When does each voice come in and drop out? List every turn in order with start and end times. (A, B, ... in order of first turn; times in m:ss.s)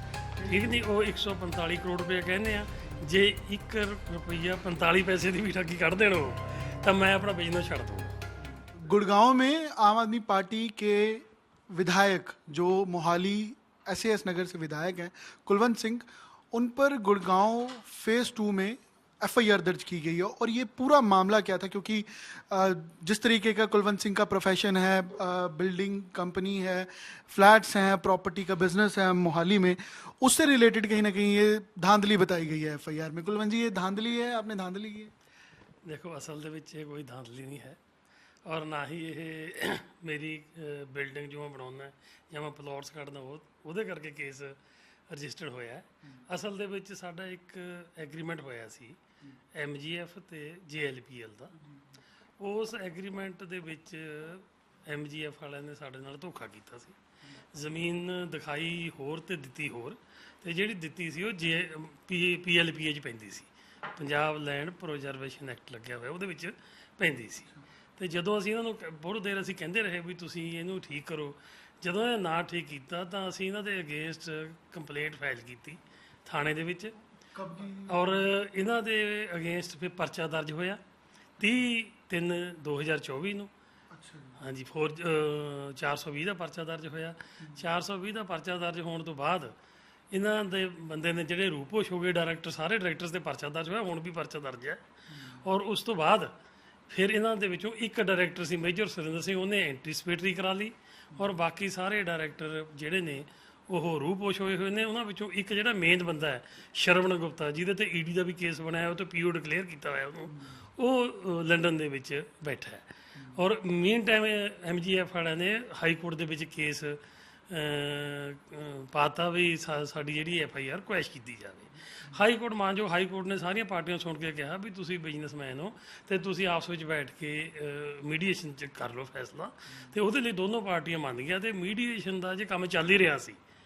0:00.4-0:00.8 A
0:00.4-0:08.2 B
0:02.8-0:03.1 A
0:06.6-0:06.8 A
0:08.4-0:35.1 A
0:35.8-0:37.8 B
0:38.4-0:44.6 B
0:45.1-0:49.0 B
0:49.5-0:51.5 B
0:51.6-0:51.9 A
0:52.4-1:17.0 B
1:17.3-1:18.3 A
1:17.8-1:20.8 B
1:21.4-1:23.5 B
1:23.9-1:24.4 A
1:24.4-1:29.5 B
1:27.4-1:27.7 A
1:30.1-1:36.3 B
1:35.1-1:35.4 A
1:36.9-2:13.4 B
1:50.3-1:50.6 A
1:53.1-1:53.4 A
2:02.0-2:02.2 A
2:09.7-2:10.0 A